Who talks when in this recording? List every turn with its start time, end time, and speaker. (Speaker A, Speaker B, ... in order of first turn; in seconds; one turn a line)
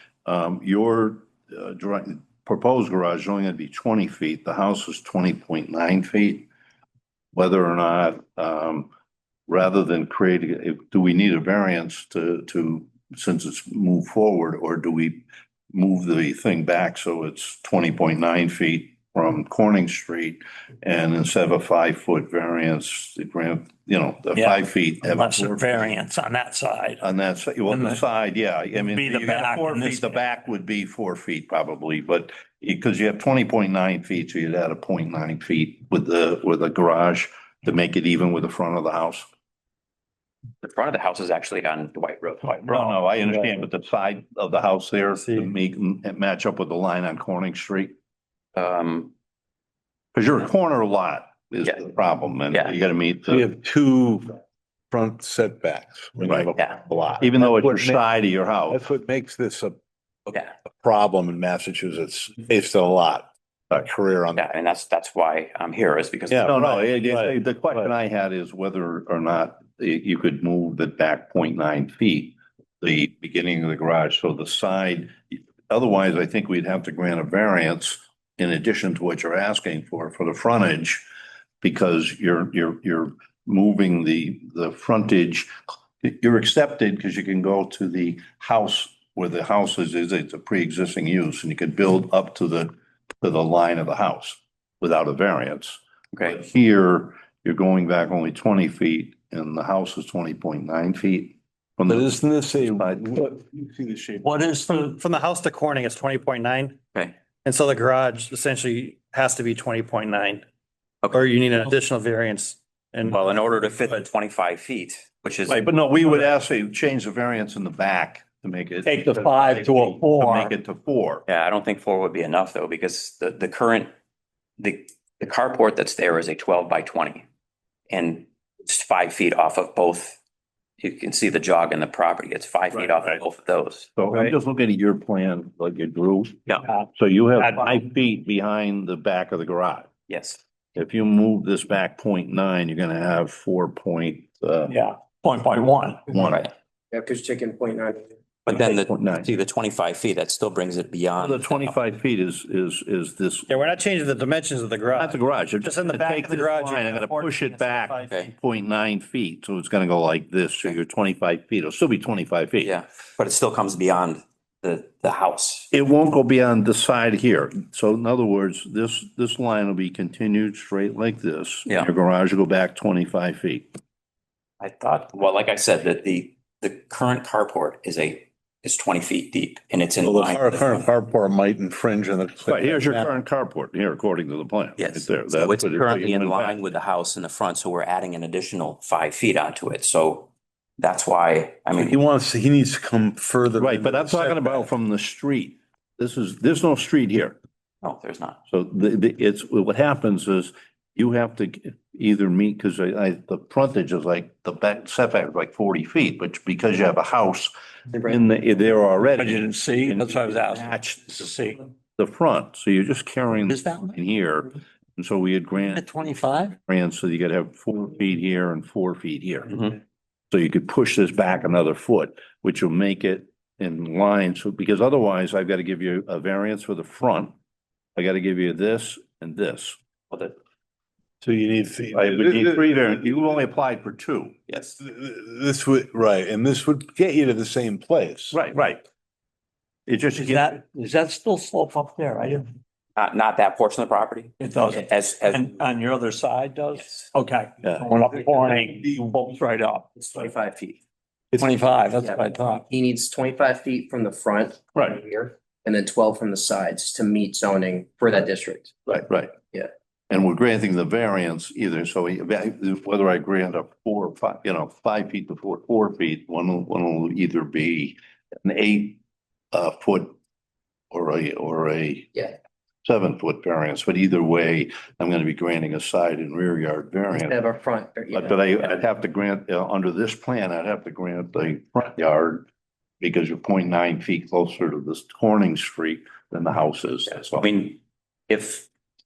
Speaker A: 0.2-6.5
Speaker A: 7.3-8.9
Speaker A: 9.5-25.8
Speaker B: 24.3-27.0
Speaker A: 27.0-39.3
Speaker B: 27.7-28.0
Speaker B: 28.9-30.2
Speaker C: 40.6-43.0
Speaker A: 42.7-47.9
Speaker D: 45.1-45.5
Speaker C: 48.5-49.1
Speaker A: 50.1-53.5
Speaker E: 53.3-54.4
Speaker E: 54.9-58.0
Speaker A: 56.2-56.5
Speaker A: 57.2-58.8
Speaker E: 58.7-59.8
Speaker C: 60.3-60.5
Speaker E: 60.6-64.4
Speaker C: 64.3-66.6
Speaker E: 66.3-67.3
Speaker A: 66.5-81.0
Speaker A: 81.6-85.5
Speaker A: 86.0-103.2
Speaker E: 101.9-104.2
Speaker B: 104.2-104.9
Speaker D: 104.8-106.8
Speaker D: 107.4-110.4
Speaker C: 111.0-111.3
Speaker D: 111.1-113.2
Speaker C: 113.0-115.6
Speaker A: 115.5-121.2
Speaker B: 118.9-120.5
Speaker C: 121.3-123.9
Speaker C: 124.6-127.2
Speaker C: 127.9-130.2
Speaker C: 130.8-134.3
Speaker A: 132.7-133.2
Speaker A: 133.9-136.4
Speaker A: 136.9-139.9
Speaker C: 140.1-140.4
Speaker A: 140.8-144.8
Speaker B: 144.7-146.1
Speaker A: 146.1-146.4
Speaker C: 146.2-146.5
Speaker F: 146.9-148.1
Speaker C: 148.4-151.8
Speaker A: 148.5-149.3
Speaker A: 151.2-153.5
Speaker D: 153.5-158.1
Speaker A: 154.9-162.7
Speaker C: 162.6-165.7
Speaker A: 165.7-173.6
Speaker C: 174.6-180.9
Speaker E: 180.0-183.0
Speaker A: 182.5-186.6
Speaker C: 184.8-192.0
Speaker E: 191.7-194.6
Speaker A: 193.6-197.3
Speaker C: 197.8-198.4
Speaker A: 198.5-211.3
Speaker F: 207.9-208.2
Speaker B: 209.2-211.7
Speaker A: 212.0-219.7
Speaker B: 213.6-214.0
Speaker B: 215.7-216.5
Speaker A: 220.3-227.3
Speaker A: 227.9-229.8
Speaker E: 231.2-232.9
Speaker A: 231.9-234.5
Speaker E: 234.8-238.4
Speaker A: 238.3-238.8
Speaker A: 239.9-240.6
Speaker B: 240.2-242.5
Speaker C: 242.9-245.5
Speaker B: 244.4-250.3
Speaker C: 246.8-247.1
Speaker F: 250.0-250.8
Speaker B: 251.4-252.6
Speaker F: 252.7-258.9
Speaker A: 258.9-259.3
Speaker A: 260.1-269.0
Speaker A: 269.5-270.1
Speaker A: 270.9-272.1
Speaker A: 272.8-277.4
Speaker F: 277.1-278.6
Speaker A: 278.1-282.5
Speaker A: 283.0-287.5
Speaker C: 287.3-288.7